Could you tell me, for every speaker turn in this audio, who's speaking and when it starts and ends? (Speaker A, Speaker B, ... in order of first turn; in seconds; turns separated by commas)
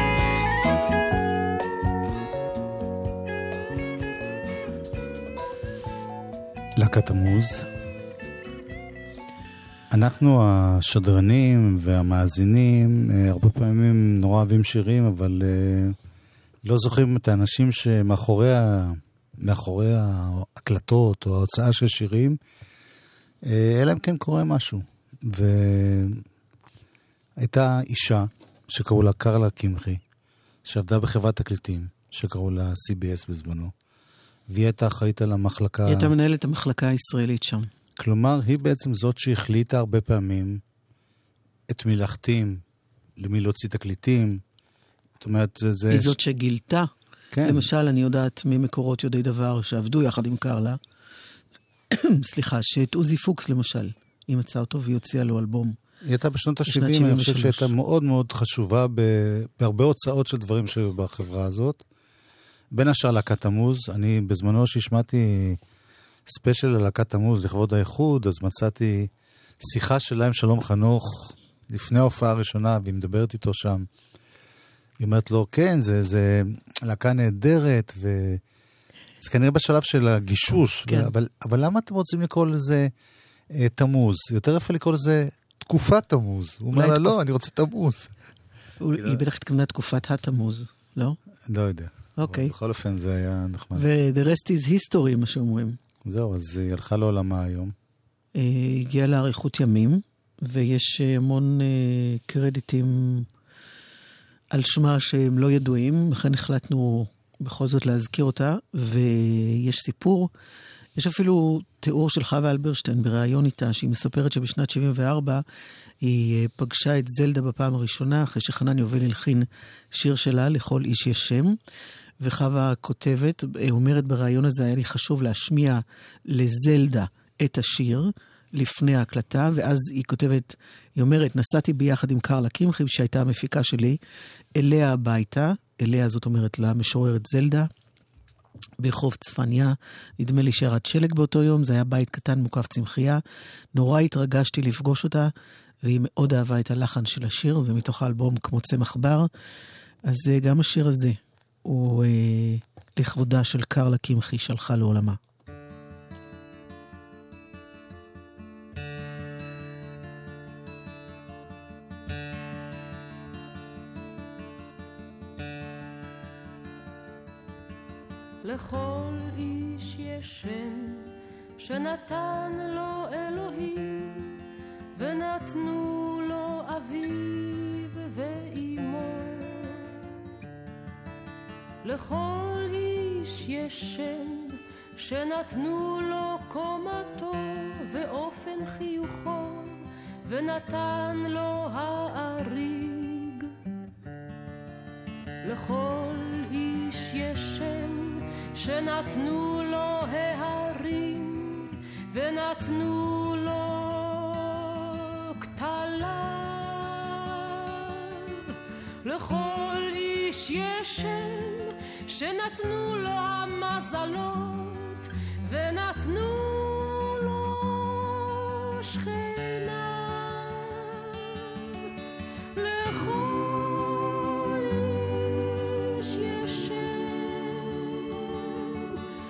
Speaker A: 6.8-7.7, Speaker A: 9.9-15.9, Speaker A: 16.6-22.4, Speaker A: 23.4-26.2, Speaker A: 27.4-30.0, Speaker A: 30.6-33.7, Speaker A: 34.5-36.1, Speaker B: 35.9-37.7, Speaker A: 38.0-40.6, Speaker A: 41.7-42.6, Speaker A: 43.2-44.4, Speaker A: 45.2-46.2, Speaker B: 45.9-46.9, Speaker A: 47.3-47.6, Speaker B: 47.4-50.8, Speaker B: 51.9-55.7, Speaker A: 56.0-61.8, Speaker B: 56.7-57.7, Speaker A: 62.7-65.6, Speaker A: 66.3-69.1, Speaker A: 69.6-73.9, Speaker A: 75.0-78.4, Speaker A: 79.2-82.9, Speaker A: 83.5-88.1, Speaker B: 86.7-87.1, Speaker B: 88.8-91.2, Speaker A: 88.9-89.2, Speaker A: 91.5-93.8, Speaker B: 92.2-92.5, Speaker B: 93.7-95.8, Speaker A: 96.0-97.7, Speaker B: 98.3-103.3, Speaker B: 104.5-110.3, Speaker B: 111.0-115.4, Speaker B: 116.0-121.6, Speaker B: 122.2-134.0, Speaker B: 134.5-137.7, Speaker B: 138.8-143.2, Speaker B: 143.7-145.3, Speaker B: 145.8-149.3, Speaker B: 150.1-155.2, Speaker C: 168.4-174.4, Speaker C: 174.9-180.1, Speaker C: 181.8-193.5, Speaker C: 195.4-221.9, Speaker C: 222.5-229.0